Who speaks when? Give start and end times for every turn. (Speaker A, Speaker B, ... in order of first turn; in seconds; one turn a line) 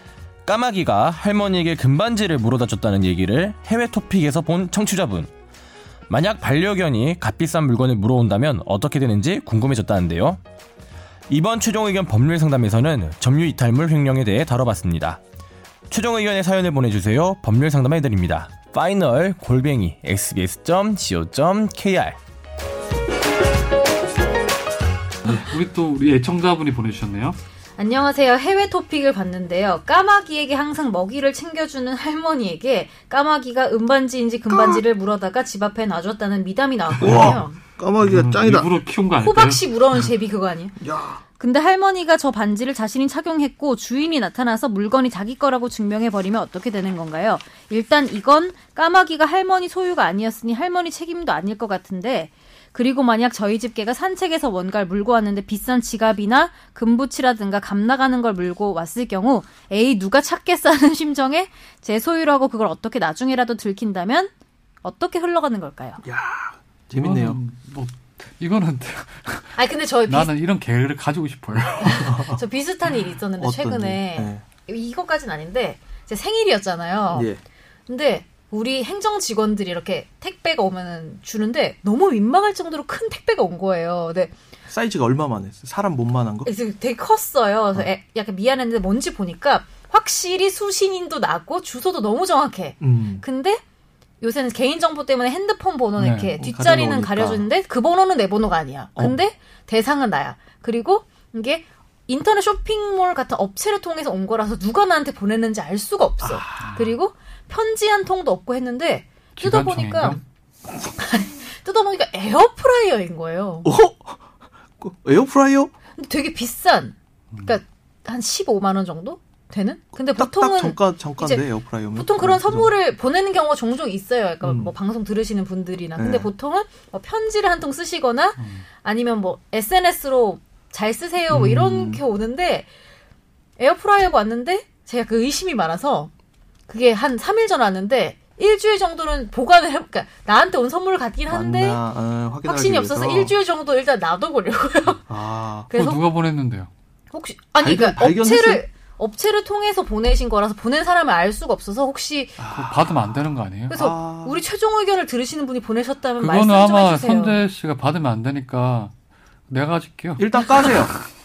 Speaker A: 0.5-5.3
Speaker A: 6.1-10.4
Speaker A: 11.3-15.2
Speaker A: 15.9-22.2
Speaker B: 25.2-27.4
Speaker C: 27.8-37.6
Speaker D: 34.5-34.8
Speaker D: 37.0-38.7
Speaker B: 37.1-37.4
Speaker B: 38.0-39.7
Speaker C: 39.2-40.8
Speaker D: 40.8-41.2
Speaker C: 41.4-66.0
Speaker D: 66.0-67.4
Speaker B: 66.9-69.6
Speaker C: 69.6-70.3
Speaker B: 70.1-72.2
Speaker C: 71.8-77.3
Speaker D: 71.9-72.4
Speaker D: 73.4-74.5
Speaker D: 77.1-77.4
Speaker C: 77.9-84.3
Speaker D: 84.7-86.5
Speaker C: 86.5-93.6
Speaker D: 92.8-93.2
Speaker C: 94.2-110.2
Speaker B: 96.0-96.3
Speaker D: 96.4-97.5
Speaker D: 106.2-106.8
Speaker B: 109.4-110.2
Speaker C: 111.0-113.7
Speaker D: 113.6-114.2
Speaker D: 114.8-115.7
Speaker C: 116.0-132.7
Speaker D: 120.0-122.8
Speaker D: 124.4-124.7
Speaker D: 126.0-126.3
Speaker B: 128.4-128.6
Speaker D: 131.3-132.0
Speaker C: 133.6-136.1
Speaker C: 136.7-141.8
Speaker D: 141.3-143.4
Speaker C: 142.4-145.0
Speaker D: 145.1-145.7
Speaker C: 145.7-146.0
Speaker B: 145.7-146.7
Speaker C: 147.1-152.4
Speaker D: 147.6-148.7
Speaker D: 152.4-153.2
Speaker B: 152.5-153.7
Speaker C: 153.7-157.4
Speaker D: 153.7-154.4
Speaker B: 156.2-158.9
Speaker B: 159.5-160.8
Speaker D: 160.2-161.0